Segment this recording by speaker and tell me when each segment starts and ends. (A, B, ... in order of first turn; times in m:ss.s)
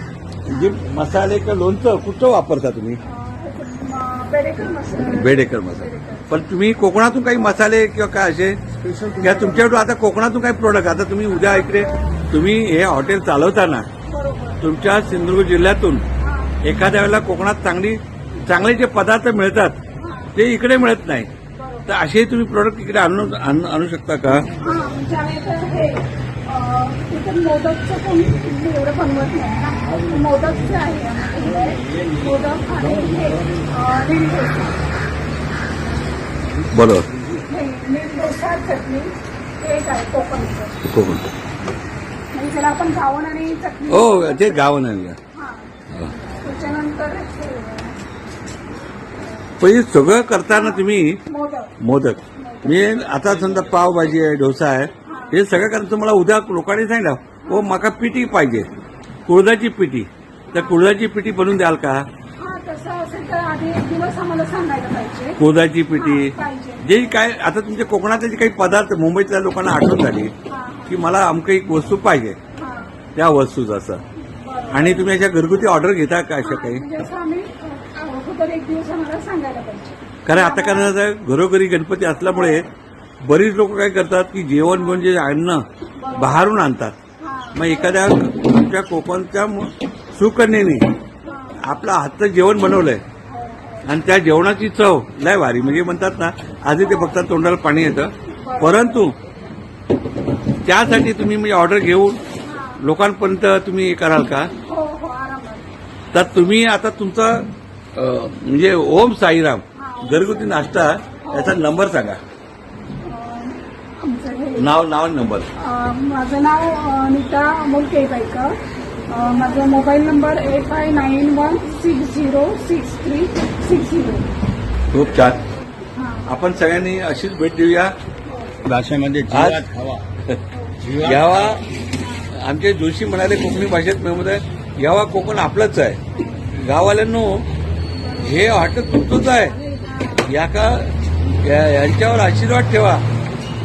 0:00.5-0:03.0 A
0:00.5-0:00.8 B
0:03.0-0:06.4 B
0:05.2-0:08.6 A
0:09.2-0:13.9 A
0:11.3-0:12.1 B
0:14.0-0:14.6 B
0:14.6-0:16.0 A
0:16.2-0:16.6 B
0:16.6-0:19.8 A
0:20.0-0:20.3 B
0:20.3-0:21.3 A
0:21.5-0:22.0 B
0:21.9-0:24.4 A
0:24.6-0:34.8 B
0:36.7-0:37.1 A
0:37.5-0:40.8 B
0:40.9-0:41.2 A
0:42.3-0:44.6 B
0:43.9-0:45.2 A
0:45.3-0:45.7 B
0:46.4-0:48.0 B
0:49.6-0:51.2 A
0:50.5-0:51.7 B
0:51.8-0:58.7 A
0:52.4-0:53.0 B
0:55.0-0:55.4 B
0:57.4-0:57.7 B
0:59.2-1:02.0 A
1:00.5-1:00.8 B
1:02.4-1:05.4 B
1:05.4-1:10.3 A
1:05.9-1:07.0 B
1:10.5-1:11.0 B
1:10.9-1:12.4 A
1:12.6-1:12.9 B
1:13.1-1:14.0 A
1:14.2-1:15.1 B
1:14.7-1:16.8 A
1:16.4-1:20.9 B
1:20.2-1:22.6 A
1:22.2-1:22.6 B
1:23.2-1:25.6 A
1:24.7-1:25.1 B
1:26.0-1:26.6 B
1:26.2-1:26.9 A
1:27.2-1:28.1 B
1:27.5-1:30.9 A
1:31.2-1:31.6 B
1:31.6-1:33.0 A
1:33.2-1:33.9 B
1:33.8-1:39.1 A
1:36.8-1:37.2 B
1:38.3-1:39.0 B
1:40.6-1:42.2 A
1:42.4-1:42.8 B
1:42.8-1:44.5 A
1:44.6-1:45.7 B
1:46.1-1:52.2 A
1:49.8-1:50.6 B
1:51.2-1:51.6 B
1:53.0-1:54.7 B
1:54.6-1:55.5 A
1:55.6-1:58.5 B
1:59.1-2:04.3 B
2:04.9-2:05.4 A
2:05.9-2:06.3 B
2:06.2-2:07.9 A
2:08.2-2:08.6 B
2:08.6-2:10.0 C
2:09.3-2:09.6 A
2:10.5-2:10.8 B
2:10.8-2:11.6 C
2:11.0-2:11.6 A
2:12.0-2:12.3 B
2:12.4-2:17.4 A
2:16.2-2:16.5 B
2:18.2-2:19.5 A
2:19.5-2:20.3 B
2:20.3-2:23.0 A